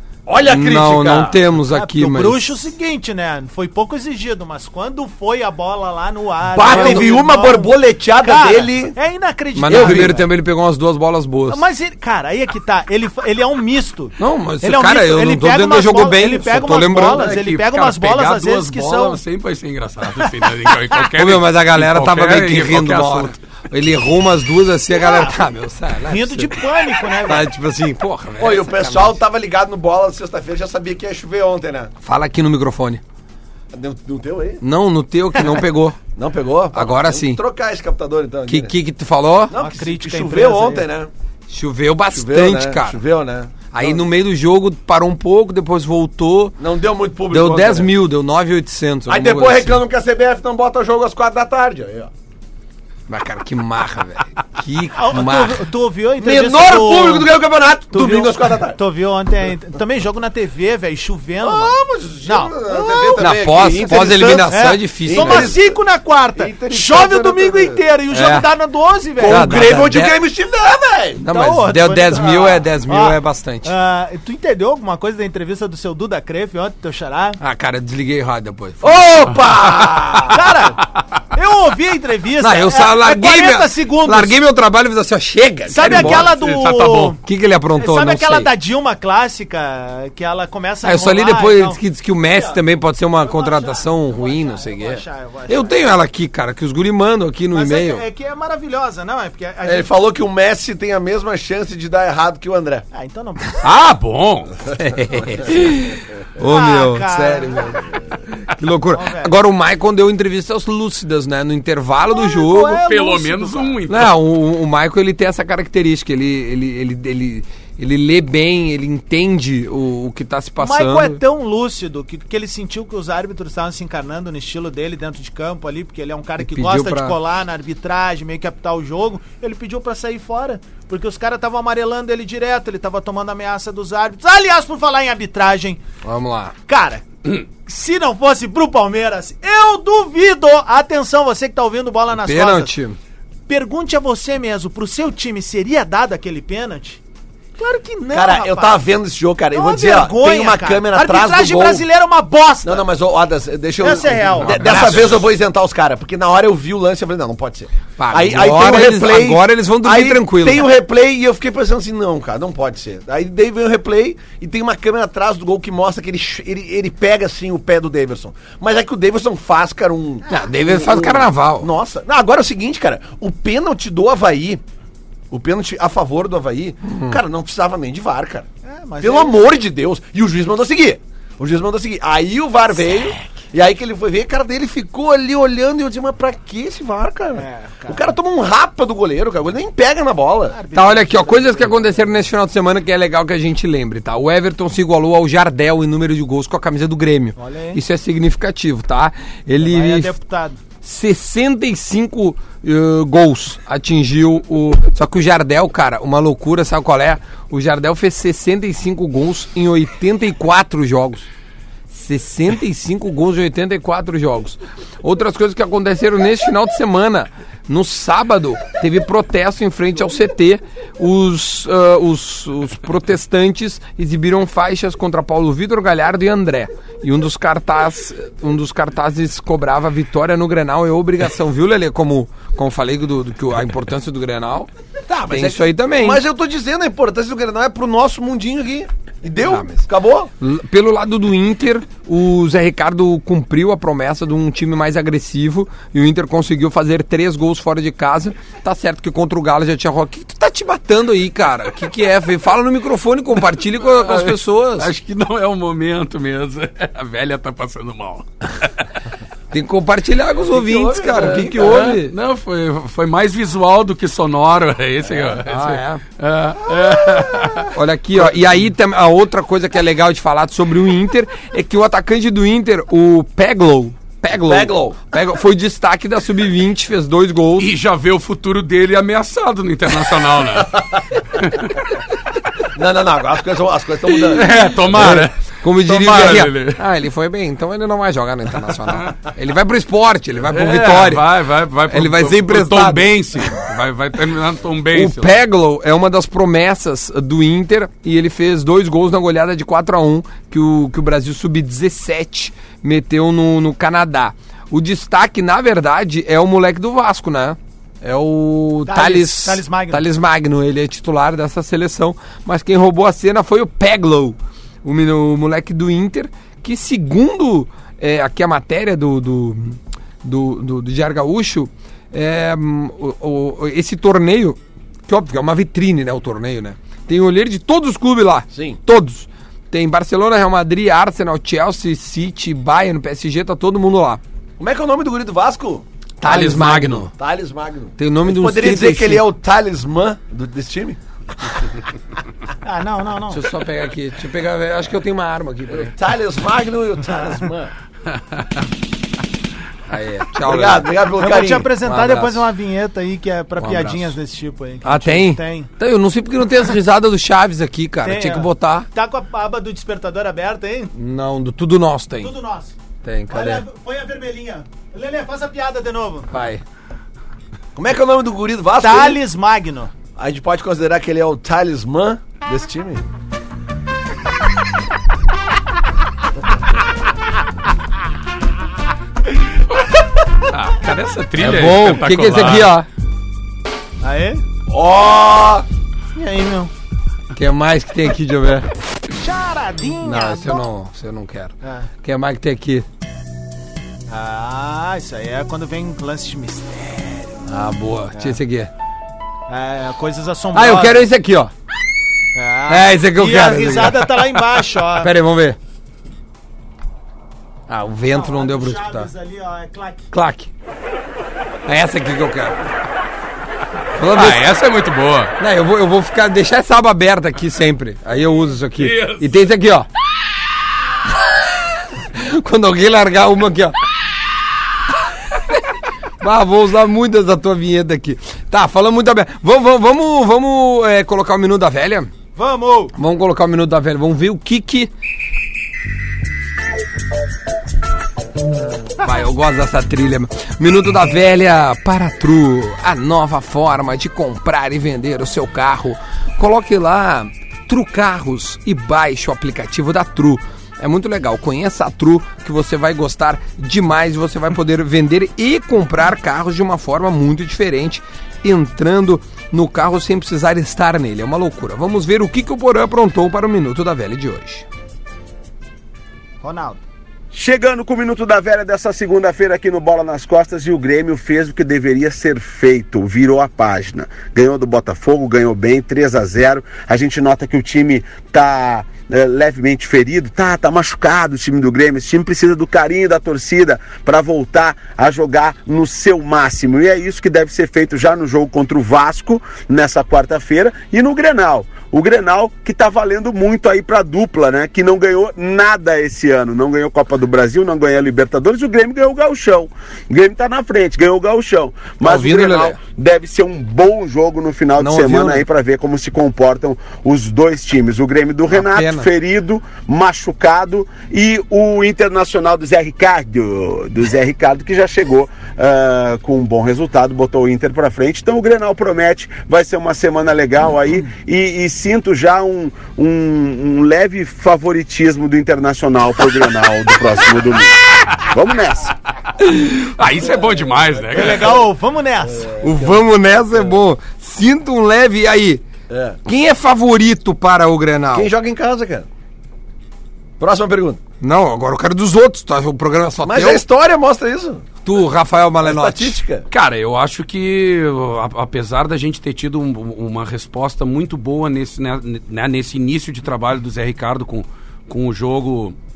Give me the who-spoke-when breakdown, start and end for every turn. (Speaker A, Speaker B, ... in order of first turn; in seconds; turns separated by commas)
Speaker A: 0.2-1.4, Speaker B: 0.4-2.6, Speaker C: 1.7-10.2, Speaker A: 6.5-8.9, Speaker B: 9.5-11.6, Speaker A: 9.7-10.1, Speaker C: 11.5-19.2, Speaker B: 14.2-17.3, Speaker D: 17.1-23.3, Speaker B: 21.1-29.2, Speaker C: 25.0-25.3, Speaker C: 26.1-27.5, Speaker A: 28.4-31.9, Speaker B: 32.0-33.0, Speaker A: 33.7-34.6, Speaker B: 34.6-36.0, Speaker A: 36.1-38.7, Speaker B: 36.7-37.4, Speaker B: 38.5-39.5, Speaker A: 39.5-41.1, Speaker C: 39.5-40.9, Speaker B: 41.5-43.0, Speaker A: 42.1-44.0, Speaker B: 43.7-46.6, Speaker A: 46.6-47.9, Speaker B: 47.3-49.8, Speaker A: 49.1-52.1, Speaker B: 53.1-55.6, Speaker C: 54.9-57.3, Speaker A: 56.2-58.8, Speaker C: 57.9-63.3, Speaker A: 61.4-65.8, Speaker B: 63.2-65.5, Speaker C: 64.5-69.7, Speaker A: 66.3-67.8, Speaker B: 68.1-68.5, Speaker A: 69.2-71.2, Speaker B: 69.2-70.2, Speaker B: 71.2-73.7, Speaker C: 71.3-77.4, Speaker B: 77.4-80.0, Speaker A: 78.8-80.5, Speaker C: 80.2-84.4, Speaker B: 82.4-86.3, Speaker C: 85.7-87.2, Speaker D: 85.8-87.1, Speaker B: 87.2-88.5, Speaker C: 87.8-92.6, Speaker B: 90.8-98.0, Speaker C: 93.2-95.9, Speaker C: 97.5-99.9, Speaker A: 99.6-102.8, Speaker C: 102.9-103.6, Speaker D: 103.6-104.6, Speaker B: 104.7-112.8, Speaker C: 106.4-107.8, Speaker C: 108.9-109.3, Speaker C: 112.0-113.8, Speaker D: 112.8-114.1, Speaker B: 113.9-121.2, Speaker C: 120.6-135.8, Speaker B: 126.4-127.2, Speaker B: 136.0-136.5, Speaker C: 136.7-142.7, Speaker B: 142.1-143.0, Speaker C: 143.5-147.0, Speaker C: 147.6-148.8, Speaker A: 148.1-151.8, Speaker C: 149.5-152.9, Speaker A: 152.6-174.6, Speaker C: 153.8-155.1, Speaker B: 154.4-155.3, Speaker B: 158.0-160.7, Speaker B: 170.3-171.7, Speaker A: 175.3-178.5, Speaker B: 176.8-177.2, Speaker C: 178.6-179.4, Speaker A: 179.0-190.6, Speaker C: 187.3-188.2, Speaker C: 190.5-191.9, Speaker B: 190.7-200.1, Speaker C: 197.3-197.8, Speaker C: 199.6-200.6, Speaker B: 200.8-211.3, Speaker B: 211.9-234.7, Speaker A: 235.1-240.3, Speaker B: 235.3-236.2, Speaker B: 239.4-239.8, Speaker B: 240.4-254.9, Speaker D: 253.8-258.7, Speaker B: 259.5-262.1, Speaker A: 260.4-261.5, Speaker D: 261.1-267.7, Speaker B: 265.4-266.0, Speaker B: 267.7-277.7, Speaker A: 274.4-275.0, Speaker D: 277.6-281.7, Speaker A: 282.7-284.6, Speaker D: 284.2-286.8, Speaker B: 284.3-291.3, Speaker D: 290.5-295.4, Speaker B: 291.9-293.4, Speaker B: 294.9-334.2, Speaker C: 308.9-310.0, Speaker A: 328.5-328.8, Speaker A: 334.6-335.8, Speaker B: 336.2-337.1, Speaker D: 336.2-337.1, Speaker A: 337.2-341.5, Speaker B: 338.0-339.3, Speaker C: 342.6-343.4, Speaker B: 343.3-345.9, Speaker A: 345.7-347.7, Speaker B: 349.9-350.9, Speaker A: 350.4-351.7, Speaker C: 351.2-355.7, Speaker B: 351.8-352.5, Speaker B: 353.6-354.2, Speaker B: 354.8-358.9, Speaker C: 358.0-360.9, Speaker B: 360.9-362.3, Speaker C: 362.2-362.8, Speaker B: 363.0-363.6, Speaker C: 363.3-366.3, Speaker B: 366.3-366.6, Speaker A: 367.7-369.2, Speaker C: 368.8-369.9, Speaker A: 370.2-373.0, Speaker D: 380.4-382.7, Speaker B: 381.4-382.9, Speaker C: 384.0-384.4, Speaker A: 384.7-385.6, Speaker C: 386.1-386.7, Speaker B: 387.3-388.7, Speaker C: 389.2-390.7, Speaker B: 390.0-392.9, Speaker C: 391.6-391.9, Speaker C: 394.1-397.4, Speaker B: 397.5-398.7, Speaker C: 398.1-398.4, Speaker C: 399.5-401.1, Speaker B: 400.5-401.5, Speaker C: 402.3-405.1, Speaker B: 402.7-404.1, Speaker B: 404.9-405.6, Speaker B: 407.7-409.1, Speaker C: 408.1-410.1, Speaker B: 410.1-410.5, Speaker B: 411.6-412.6, Speaker B: 413.9-414.5, Speaker D: 414.1-415.3, Speaker B: 415.4-419.9, Speaker D: 418.8-419.4, Speaker B: 421.2-423.8, Speaker B: 425.3-425.6, Speaker B: 426.2-432.1, Speaker C: 432.4-432.9, Speaker B: 432.9-434.9, Speaker B: 439.0-464.7, Speaker C: 466.4-466.8, Speaker E: 467.3-528.9, Speaker B: 502.0-502.8, Speaker B: 504.8-505.4, Speaker B: 508.5-509.1, Speaker D: 529.4-531.6, Speaker A: 530.2-531.7, Speaker C: 531.1-532.5, Speaker A: 532.2-533.0, Speaker B: 532.6-535.6, Speaker A: 535.9-536.2, Speaker B: 536.2-538.3, Speaker A: 538.1-539.1, Speaker A: 540.4-541.0, Speaker B: 541.2-543.6, Speaker A: 543.2-544.6, Speaker B: 544.8-546.2, Speaker A: 545.6-546.5, Speaker D: 546.5-555.7